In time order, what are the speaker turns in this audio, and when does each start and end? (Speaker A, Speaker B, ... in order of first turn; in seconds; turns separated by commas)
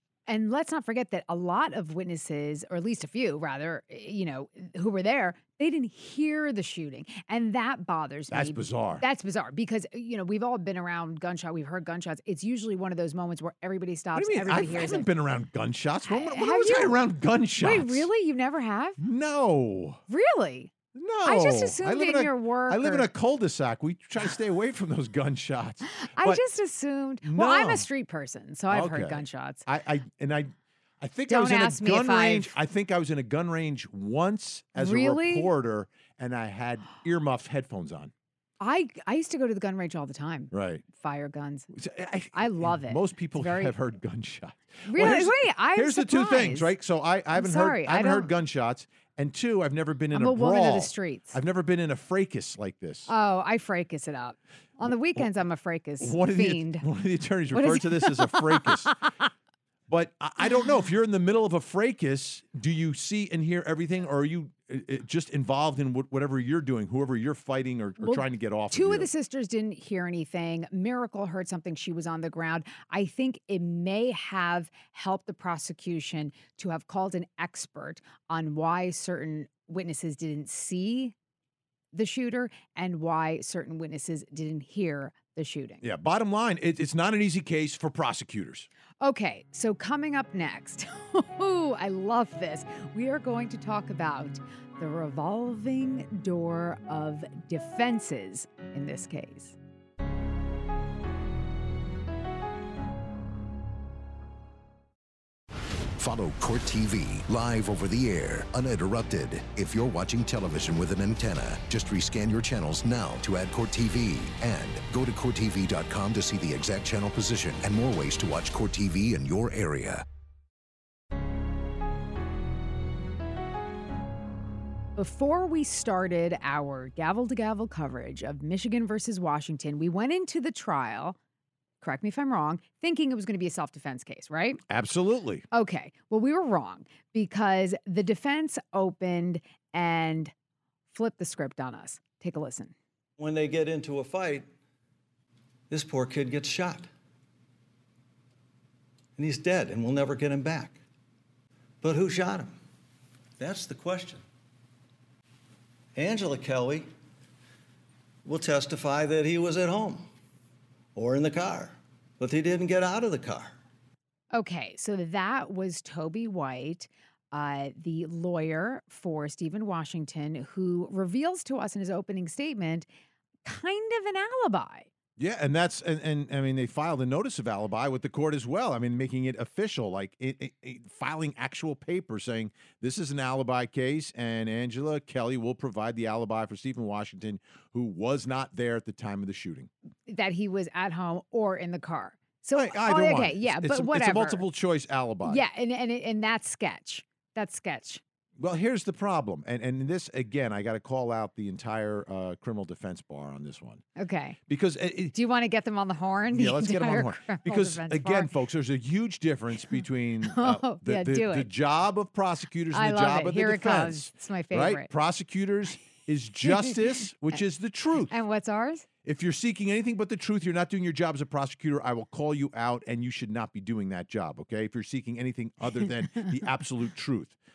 Speaker A: 0.3-15.1, Speaker B: 8.3-9.0, Speaker B: 14.1-18.1, Speaker A: 16.1-17.0, Speaker A: 17.6-19.0, Speaker B: 19.0-20.0, Speaker A: 20.1-23.1, Speaker B: 20.9-26.4, Speaker A: 25.8-29.6, Speaker B: 27.2-27.9, Speaker B: 28.7-38.1, Speaker A: 31.3-32.5, Speaker A: 34.8-35.5, Speaker A: 38.6-41.7, Speaker B: 40.5-40.8, Speaker B: 41.7-53.1, Speaker A: 42.3-43.7, Speaker A: 44.9-46.7, Speaker A: 47.3-48.3, Speaker A: 50.1-51.4, Speaker A: 53.1-56.9, Speaker B: 54.8-55.2, Speaker B: 56.0-58.9, Speaker A: 57.5-59.1, Speaker B: 59.9-69.1, Speaker A: 68.0-81.1, Speaker A: 81.9-85.8, Speaker B: 85.8-88.7, Speaker A: 89.0-99.6, Speaker C: 106.0-120.0, Speaker A: 125.0-131.2, Speaker A: 131.8-134.6, Speaker B: 134.7-135.4, Speaker A: 135.5-140.3, Speaker A: 140.9-142.7, Speaker D: 143.2-144.5, Speaker D: 145.7-146.9, Speaker D: 149.2-150.8, Speaker D: 151.8-152.5, Speaker D: 153.4-154.2, Speaker D: 155.9-156.9, Speaker D: 158.2-160.1, Speaker D: 160.9-163.6, Speaker A: 164.3-172.9, Speaker A: 173.4-174.9, Speaker B: 175.2-189.7, Speaker A: 190.1-194.4, Speaker B: 192.5-195.4, Speaker A: 195.2-198.0, Speaker B: 198.4-203.8, Speaker A: 203.9-204.4, Speaker B: 204.5-205.1, Speaker A: 205.1-208.3, Speaker B: 206.3-218.1, Speaker A: 210.2-211.5, Speaker A: 212.7-214.9, Speaker A: 216.4-216.9, Speaker A: 218.1-218.8, Speaker B: 219.0-227.4